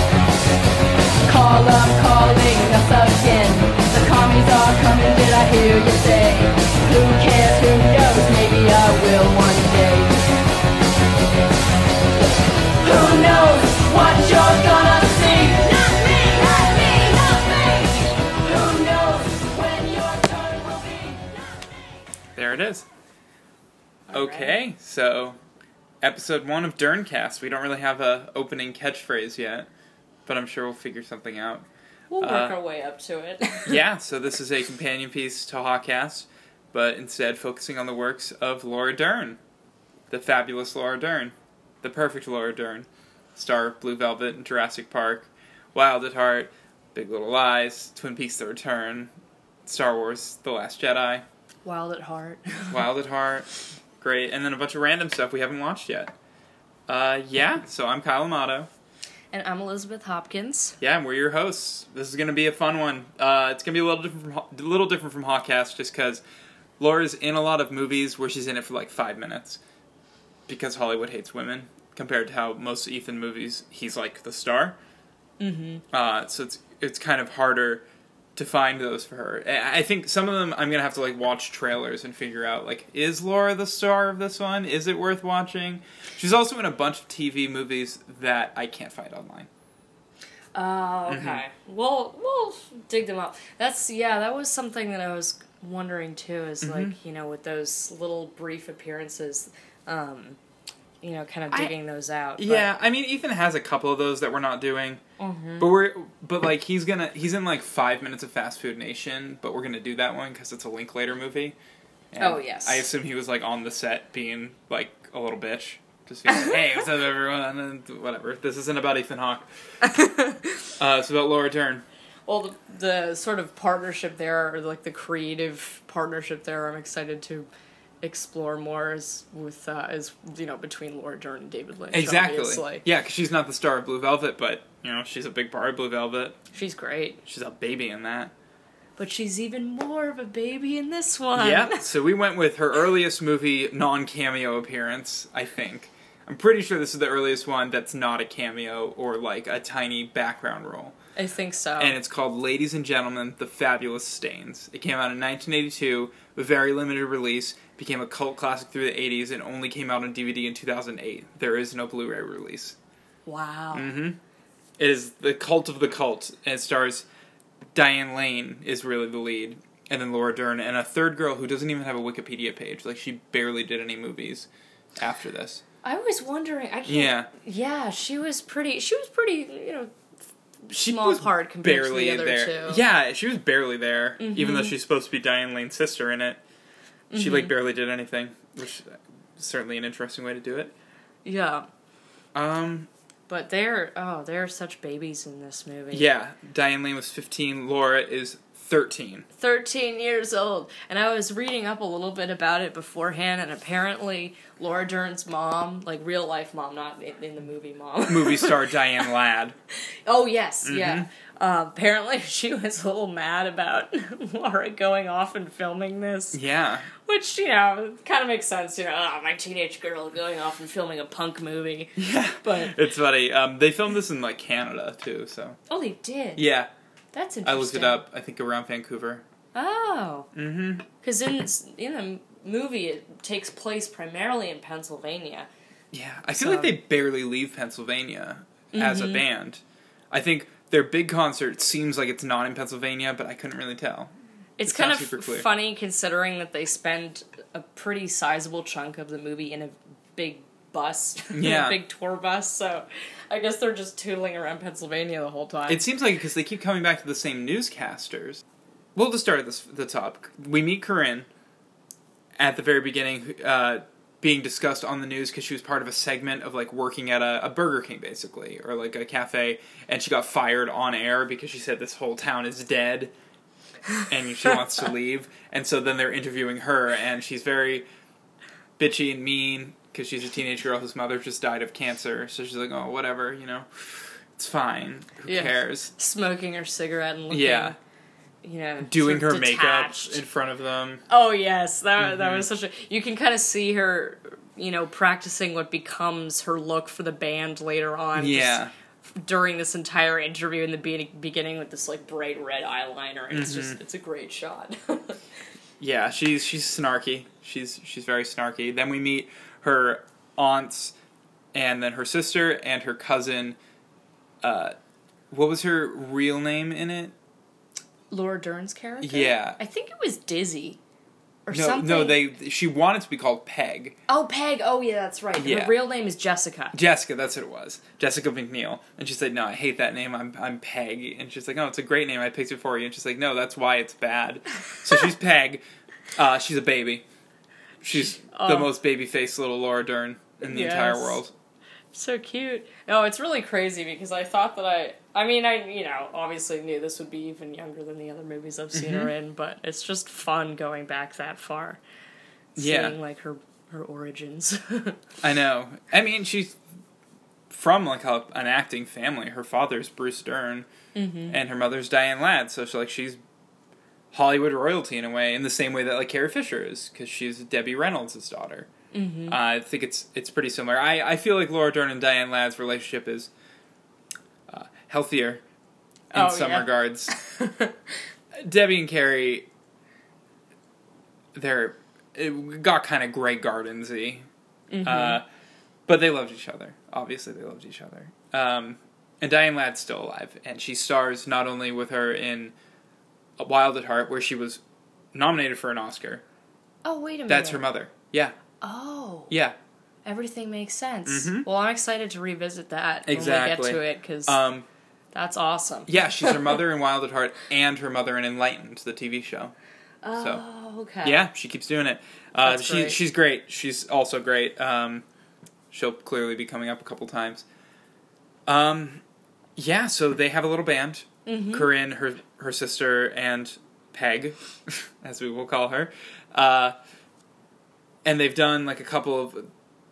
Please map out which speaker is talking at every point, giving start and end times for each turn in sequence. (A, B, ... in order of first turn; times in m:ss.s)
0:01.3-0:10.1 A
0:12.8-0:21.6 A
0:22.4-0:22.9 B
0:24.1-0:25.4 B
0:24.1-0:24.6 C
0:26.0-0:29.7 B
0:30.3-0:31.7 B
0:32.1-0:33.8 C
0:32.2-0:32.6 B
0:33.6-0:39.4 B
0:40.1-0:49.1 B
0:49.6-0:51.2 B
0:51.6-0:52.8 C
0:52.7-0:56.1 B
0:56.9-0:58.7 B
0:59.3-1:00.8 C
1:00.8-1:06.2 B
1:06.8-1:09.6 B
1:10.5-1:14.8 B
1:15.4-1:15.8 C
1:15.9-1:29.5 B
1:30.6-1:40.4 C
1:31.1-1:31.4 B
1:36.6-1:37.0 B
1:41.0-1:42.7 C
1:42.4-1:45.0 B
1:45.2-1:45.7 C
1:45.6-1:51.6 B
1:52.1-1:59.5 B
1:52.2-1:52.9 C
1:56.3-1:56.6 C
1:59.8-2:00.7 C
2:00.8-2:01.8 B
2:02.3-2:07.5 C
2:08.0-2:12.8 C
2:11.9-2:16.4 B
2:16.5-2:17.2 C
2:17.2-2:18.3 B
2:19.0-2:21.8 C
2:21.3-2:31.0 B
2:31.2-2:32.0 C
2:31.8-2:42.8 B
2:43.3-2:43.9 C
2:43.7-2:44.2 B
2:44.8-2:47.1 B
2:47.8-2:55.6 B
2:55.8-2:59.9 C
2:56.9-2:57.3 B
3:00.6-3:02.8 C
3:00.7-3:06.4 B
3:04.2-3:04.8 C
3:07.1-3:07.5 C
3:07.1-3:10.7 B
3:11.2-3:11.7 C
3:12.4-3:12.9 B
3:13.3-3:16.1 C
3:15.9-3:19.3 B
3:19.3-3:28.8 C
3:28.1-3:29.6 B
3:30.1-3:36.4 C
3:30.6-3:31.1 B
3:36.3-3:36.9 B
3:37.0-3:42.8 C
3:42.0-3:45.6 B
3:45.7-3:46.4 C
3:46.4-3:46.7 B
3:47.1-3:48.0 C
3:47.4-3:49.2 B
3:49.6-3:50.3 C
3:50.3-3:50.9 B
3:51.0-3:55.5 C
3:55.9-4:04.1 B
3:56.4-3:56.8 C
3:58.7-3:59.2 C
4:04.6-4:15.8 C
4:04.7-4:05.5 B
4:11.3-4:11.8 B
4:15.7-4:18.4 B
4:19.0-4:21.3 B
4:22.4-4:33.1 B
4:34.1-4:37.9 B
4:38.8-4:45.9 B
4:45.3-4:47.8 C
4:47.3-4:47.8 B
4:48.4-4:50.2 C
4:48.8-4:51.0 B
4:51.1-5:05.2 C
4:52.0-4:52.5 B
4:58.2-4:58.7 B
5:03.3-5:03.8 B
5:05.8-5:11.0 B
5:11.5-5:13.6 B
5:14.4-5:14.8 B
5:15.3-5:17.2 B
5:18.1-5:20.8 C
5:19.0-5:19.6 B
5:21.5-5:22.2 C
5:21.5-5:24.0 B
5:24.1-5:26.8 C
5:25.4-5:25.8 B
5:26.7-5:35.6 B
5:36.2-5:37.0 B
5:37.8-5:41.3 B
5:38.0-5:38.7 C
5:40.4-5:41.2 C
5:41.9-5:51.8 C
5:48.7-5:49.1 B
5:52.6-5:55.0 C
5:52.6-5:53.0 B
5:55.2-5:56.6 B
5:57.5-6:00.7 B
6:01.0-6:01.4 C
6:01.3-6:03.2 B
6:04.1-6:08.7 B
6:08.9-6:09.4 C
6:09.3-6:13.3 B
6:14.5-6:15.4 B
6:16.1-6:17.1 B
6:16.1-6:17.8 C
6:18.4-6:19.5 B
6:21.3-6:24.3 B
6:24.7-6:25.2 C
6:24.8-6:25.2 B
6:25.9-6:32.5 B
6:33.4-6:34.6 B
6:35.1-6:36.2 B
6:36.8-6:37.7 C
6:37.3-6:38.4 B
6:38.6-6:39.3 C
6:39.3-6:39.6 B
6:40.0-6:44.4 C
6:41.1-6:41.5 B
6:43.1-6:44.7 B
6:45.1-6:46.6 C
6:45.9-6:49.5 B
6:50.0-6:51.3 C
6:50.2-6:50.4 B
6:51.0-6:55.0 B
6:52.4-6:53.0 C
6:55.7-6:57.5 B
6:58.5-6:59.0 B
6:59.6-7:06.8 B
7:01.3-7:01.7 C
7:08.0-7:09.5 B